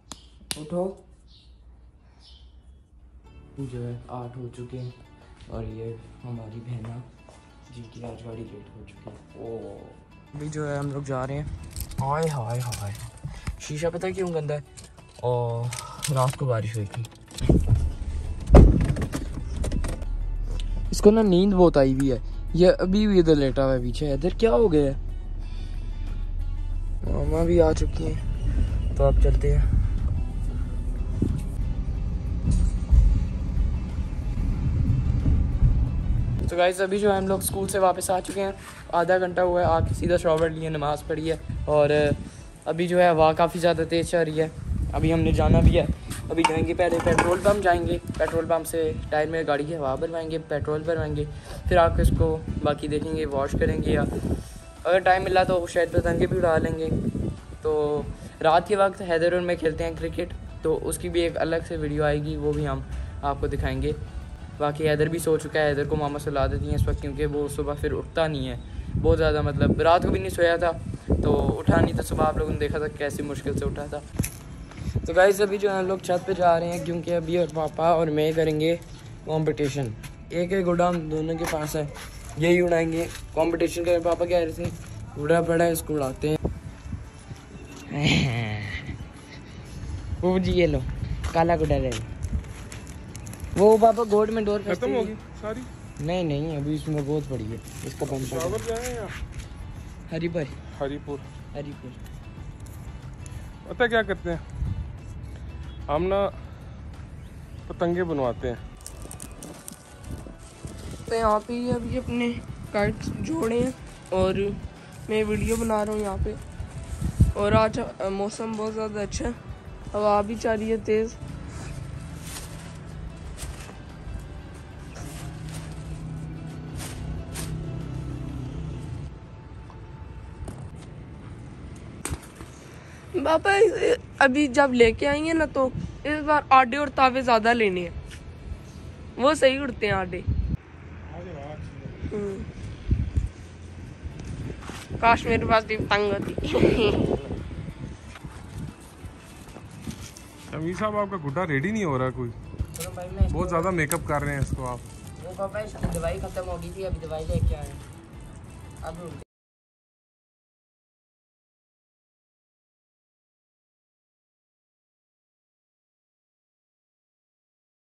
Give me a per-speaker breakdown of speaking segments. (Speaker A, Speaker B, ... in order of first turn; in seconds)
Speaker A: 0.5-1.0, 3.5-5.0, 5.5-7.1, 7.7-14.7, 15.2-17.1, 20.9-25.0, 27.0-28.2, 28.9-29.7, 36.4-54.1, 54.8-57.0, 57.6-64.0, 64.6-74.0, 75.0-86.4, 87.9-88.9, 90.2-92.1, 93.5-95.2, 96.0-98.6, 100.1-100.5, 101.5-102.0, 152.7-153.7, 155.2-157.8, 158.8-159.2
Speaker B: 94.7-95.7, 98.1-99.1, 100.7-101.3, 103.6-104.4, 105.9-106.3, 107.7-108.6, 141.1-141.9, 150.5-152.3, 153.3-154.8
Speaker C: 111.0-116.4, 117.3-119.4, 119.9-121.2, 133.1-137.9, 139.2-140.2, 142.1-142.5, 145.0-147.2